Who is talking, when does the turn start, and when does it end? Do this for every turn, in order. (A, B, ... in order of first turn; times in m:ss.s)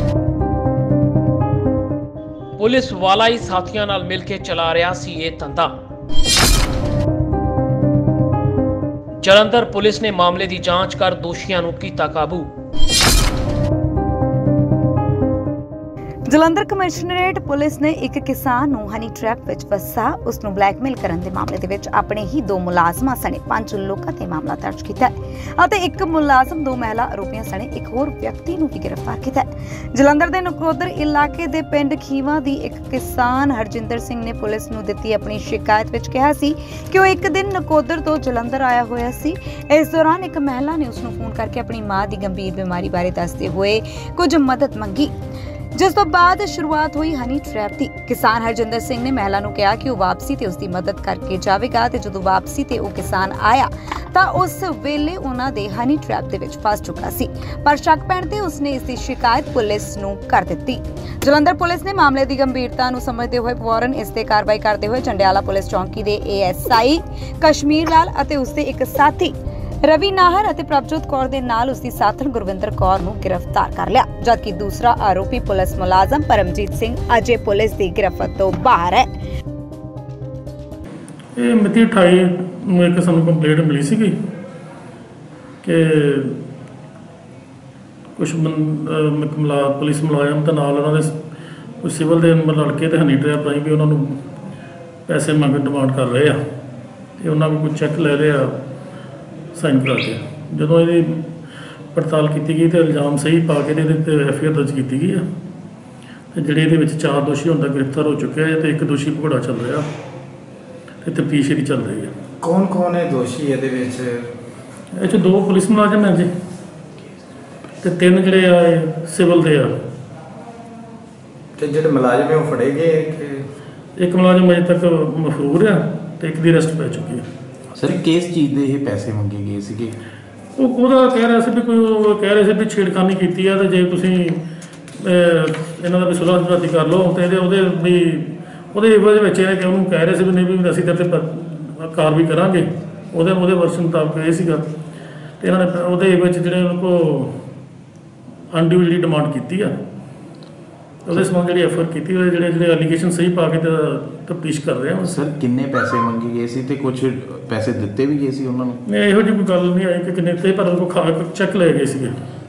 0:02.6-0:05.7 A
0:09.2-0:12.5 A
0:16.3-0:45.1 B
0:45.7-1:19.1 B
1:21.4-1:24.1 C
1:25.6-1:26.4 C
1:28.2-1:31.1 C
1:31.8-1:34.2 C
1:35.1-1:36.4 C
1:37.2-1:38.6 C
1:39.5-1:41.2 C
1:41.9-1:45.2 C
1:46.3-1:49.9 C
1:51.0-1:52.1 C
1:52.4-1:54.3 D
1:54.9-1:56.3 C
1:57.8-1:59.8 C
2:01.6-2:03.4 D
2:04.0-2:07.2 C
2:07.7-2:10.0 E
2:10.6-2:14.4 C
2:15.0-2:24.6 C
2:25.4-2:27.3 C
2:28.5-2:29.7 C
2:31.0-2:35.2 C
2:35.0-2:38.8 E
2:38.9-2:42.1 C